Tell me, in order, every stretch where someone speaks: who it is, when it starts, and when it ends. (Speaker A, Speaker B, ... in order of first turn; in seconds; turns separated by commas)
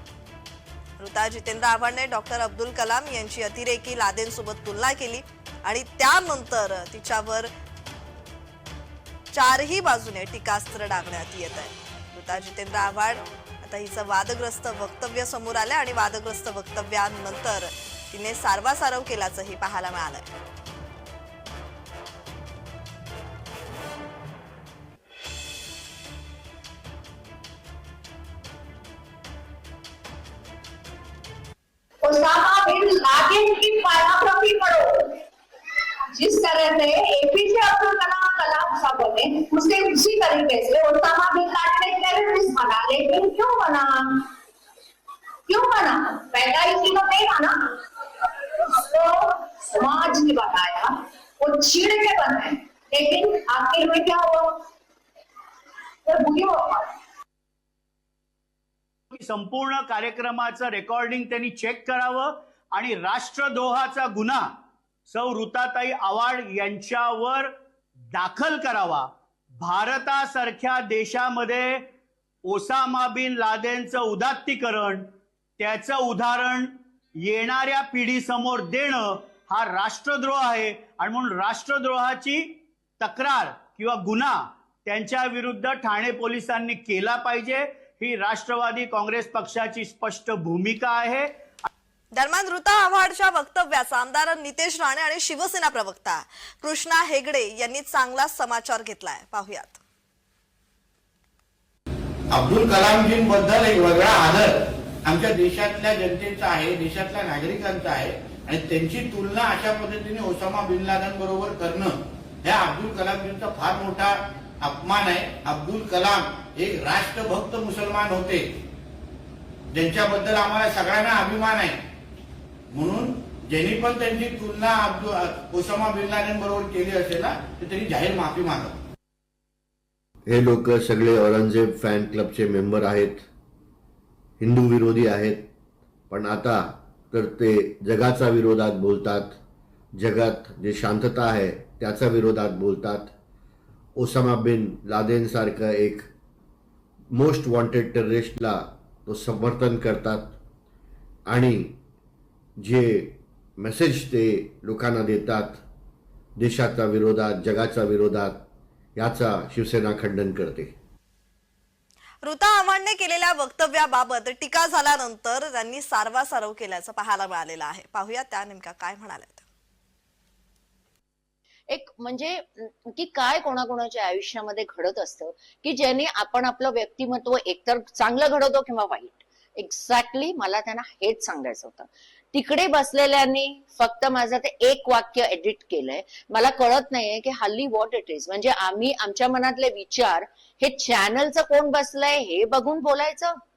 Speaker A: 1.0-7.5, Speaker A: 9.3-20.3, Speaker B: 32.0-35.2, Speaker B: 36.1-44.3, Speaker B: 45.5-54.6, Speaker B: 56.1-56.9, Speaker C: 59.1-64.5, Speaker C: 65.1-67.5, Speaker C: 68.1-69.1, Speaker C: 69.6-71.8, Speaker C: 72.5-75.1, Speaker C: 75.6-91.3, Speaker A: 92.1-99.8, Speaker D: 102.3-118.5, Speaker D: 119.7-121.8, Speaker D: 122.7-128.8, Speaker E: 130.3-133.2, Speaker E: 134.4-135.5, Speaker E: 136.1-139.4, Speaker E: 139.9-143.1, Speaker E: 144.0-146.1, Speaker E: 147.1-150.4, Speaker E: 151.3-151.8, Speaker E: 152.6-155.6, Speaker E: 156.4-158.4, Speaker E: 159.0-160.8, Speaker A: 162.2-169.4, Speaker F: 171.7-193.3